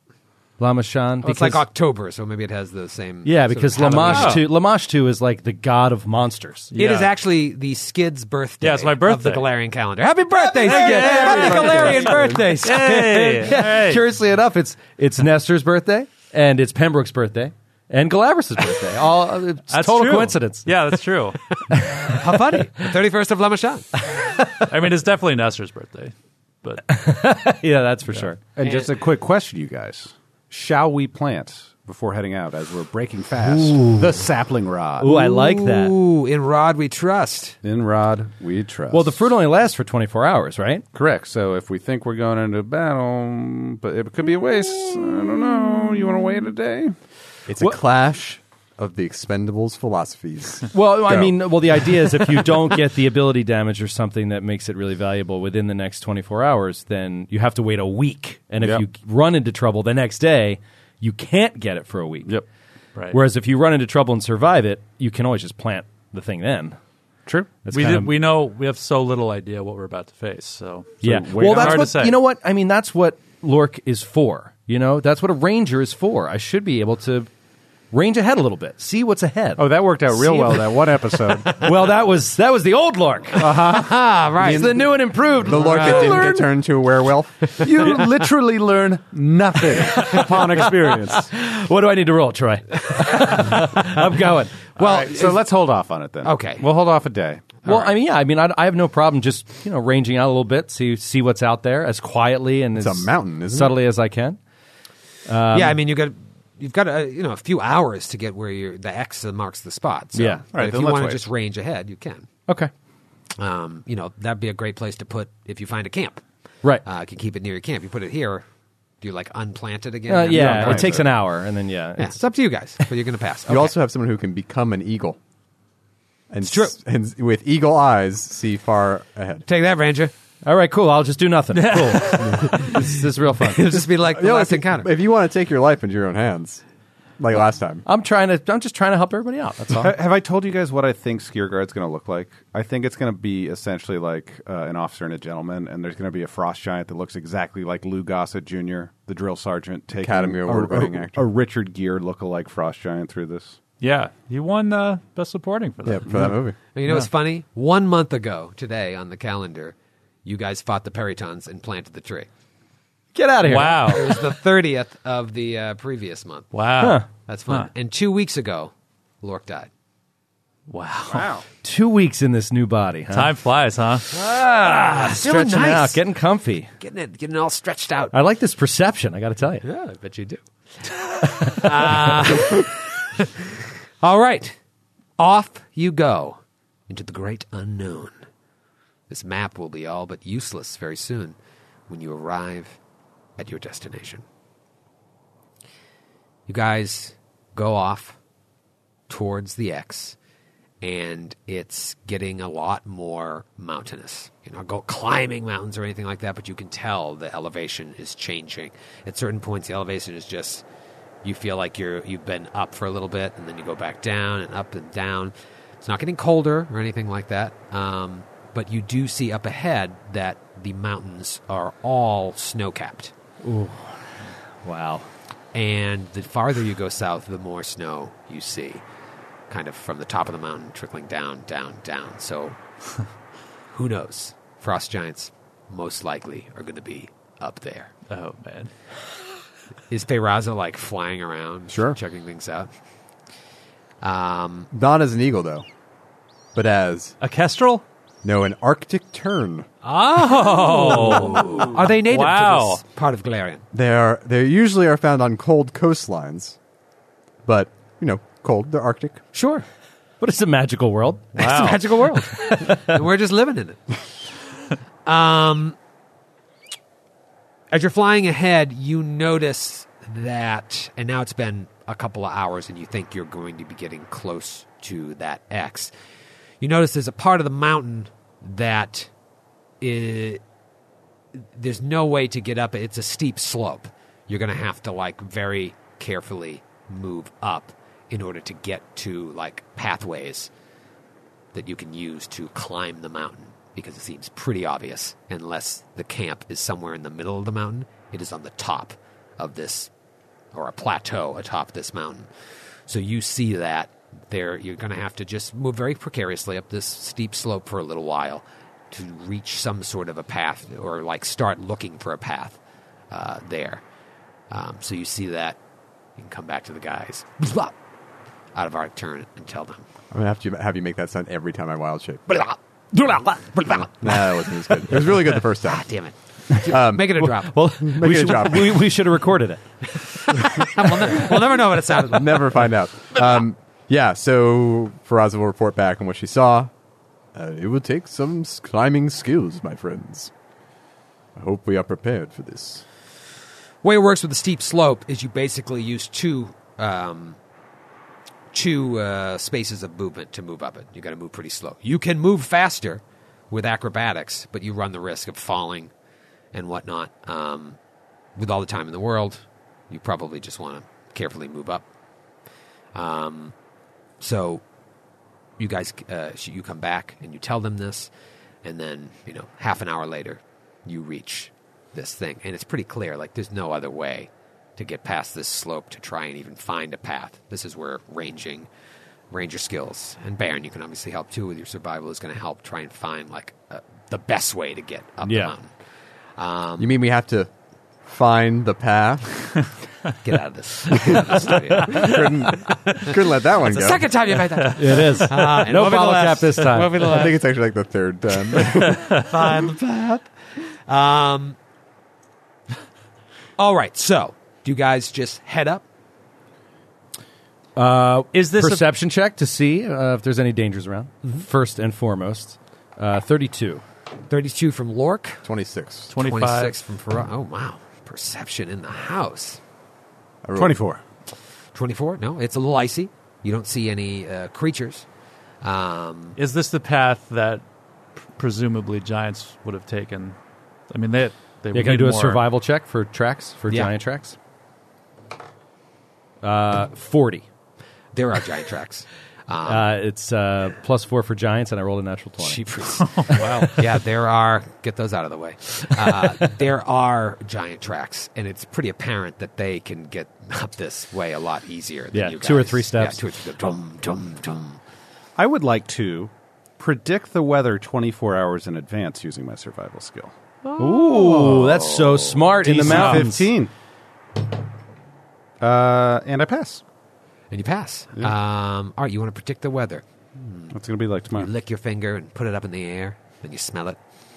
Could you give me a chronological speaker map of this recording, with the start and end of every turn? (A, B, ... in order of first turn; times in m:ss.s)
0:00.6-0:01.6 A
0:01.2-0:04.4 B
0:03.2-0:06.7 A
0:04.0-0:04.4 C
0:06.7-0:07.1 C
0:06.8-0:13.5 B
0:08.6-0:09.4 C
0:10.6-0:14.0 C
0:11.1-0:12.4 D
0:11.4-0:11.8 A
0:12.7-0:20.7 A
0:19.7-0:21.4 C
0:21.7-0:22.1 A
0:22.1-0:23.8 B
0:24.2-0:24.5 A
0:24.7-0:27.0 C
0:26.9-0:28.4 A
0:28.6-0:35.1 E
0:28.6-0:28.9 B
0:33.4-0:34.3 A
0:35.0-0:35.9 A
0:35.0-0:37.6 B
0:37.6-0:39.2 E
0:38.9-0:40.8 A
0:40.9-0:46.9 E
0:47.5-0:51.3 D
0:50.7-1:02.3 A
0:58.6-0:58.8 E
1:03.1-1:06.8 A
1:07.2-1:08.1 E
1:07.7-1:12.2 C
1:11.0-1:17.3 A
1:11.0-1:11.9 E
1:17.9-1:23.6 A
1:19.6-1:21.7 E
1:23.4-1:24.8 E
1:23.5-1:24.8 B
1:24.4-1:25.9 A
1:25.4-1:27.8 D
1:25.6-1:26.5 E
1:27.6-1:31.3 E
1:30.0-1:34.7 A
1:34.8-1:37.6 E
1:34.8-1:35.4 B
1:36.2-1:36.6 B
1:37.6-1:44.4 A
1:37.6-1:37.9 B
1:42.8-1:43.8 D
1:45.3-1:45.8 A
1:45.5-1:52.3 B
1:50.1-1:50.4 A
1:50.5-1:51.3 E
1:53.4-1:56.2 B
1:56.8-1:58.4 B
1:59.0-2:01.1 B
2:00.1-2:02.2 A
2:00.3-2:01.0 E
2:02.0-2:03.7 B
2:03.5-2:05.2 D
2:06.3-2:09.4 D
2:06.4-2:06.8 B
2:09.5-2:10.1 B
2:10.4-2:13.8 A
2:11.6-2:12.0 C
2:12.4-2:12.8 B
2:13.4-2:14.9 B
2:14.0-2:16.6 D
2:17.2-2:17.8 D
2:17.8-2:19.9 A
2:19.8-2:33.6 E
2:30.0-2:31.2 D
2:33.8-2:36.2 C
2:35.8-2:36.5 D
2:36.7-2:42.3 B
2:43.1-2:44.1 A
2:43.4-2:44.2 C
2:43.9-2:46.5 B
2:46.5-2:47.7 C
2:46.8-2:47.0 A
2:47.2-2:49.7 B
2:50.7-2:51.3 C
2:51.1-2:51.4 E
2:51.6-2:53.3 A
2:53.1-2:54.1 C
2:54.1-2:56.0 B
2:54.6-2:56.7 A
2:56.8-2:58.1 B
2:58.1-2:59.6 A
2:59.6-3:00.4 B
3:01.2-3:02.2 A
3:01.4-3:03.4 B
3:04.0-3:04.6 B
3:05.2-3:08.2 B
3:09.1-3:11.4 B
3:11.9-3:12.8 B
3:13.4-3:14.2 B
3:16.5-3:18.2 B
3:19.1-3:20.2 B
3:20.8-3:30.6 B
3:31.2-3:43.1 B
3:43.4-3:45.1 A
3:45.5-3:48.8 B
3:49.5-3:52.6 B
3:53.7-3:57.9 B
3:58.1-3:58.7 C
3:59.9-4:02.7 B
4:01.7-4:02.0 D
4:04.0-4:04.7 B
4:04.7-4:05.6 D
4:06.5-4:07.2 D
4:07.2-4:07.8 C
4:08.2-4:09.7 D
4:09.8-4:12.8 C
4:09.9-4:13.6 B
4:13.7-4:16.6 D
4:17.4-4:19.2 D
4:19.3-4:19.6 B
4:20.2-4:21.3 A
4:21.3-4:21.9 C
4:21.4-4:24.1 B
4:25.0-4:25.8 B
4:27.7-4:35.9 B
4:36.6-4:39.1 B
4:39.8-4:40.4 B
4:41.4-4:50.5 B
4:51.5-4:59.9 B
5:00.5-5:02.3 B
5:02.9-5:12.6 B
5:13.1-5:13.8 B
5:14.5-5:15.6 B
5:16.2-5:17.7 B
5:18.5-5:19.8 B
5:20.1-5:22.4 D
5:22.3-5:24.0 B
5:23.9-5:25.9 D
5:25.6-5:27.6 B
5:26.6-5:28.8 D
5:27.2-5:29.6 A
5:30.3-5:31.2 A
5:30.4-5:32.6 B
5:32.0-5:36.7 D
5:37.3-5:40.3 D
5:41.4-5:42.8 D
5:43.8-5:47.4 B
5:48.5-5:55.9 B
5:56.5-5:57.8 B
5:58.4-6:01.8 B
6:02.9-6:03.5 B
6:04.2-6:04.6 B
6:05.6-6:08.1 B
6:08.6-6:18.7 B
6:19.3-6:25.7 B
6:25.2-6:25.5 A
6:26.4-6:27.0 B
6:26.8-6:27.5 D
6:28.0-6:29.5 D
6:30.2-6:37.4 B
6:31.0-6:34.0 D
6:34.6-6:35.3 C
6:34.7-6:37.0 A
6:37.0-6:39.2 D
6:38.9-6:40.3 B
6:40.9-6:41.6 B
6:43.6-6:45.8 B
6:47.8-6:53.8 A
6:48.3-6:48.8 C
6:54.3-6:55.4 B
6:55.4-6:56.1 D
6:56.1-6:59.6 B
6:56.1-6:56.7 C
7:00.4-7:00.8 D
7:00.5-7:01.0 E
7:01.7-7:05.0 B
7:05.6-7:06.4 B
7:06.4-7:07.6 C
7:08.3-7:10.4 C
7:10.9-7:12.4 C
7:11.7-7:14.4 A
7:16.4-7:17.4 A
7:18.1-7:19.9 B
7:19.6-7:23.6 A
7:22.4-7:34.8 B
7:23.0-7:23.8 C
7:26.1-7:26.3 A
7:32.1-7:33.2 A
7:35.4-7:40.3 E
7:40.7-7:41.1 B
7:40.8-7:43.5 A
7:42.6-7:43.7 E
7:42.9-7:43.2 C
7:45.6-7:46.8 E
7:47.5-7:50.7 B
7:50.7-7:51.5 E
7:51.3-7:54.0 B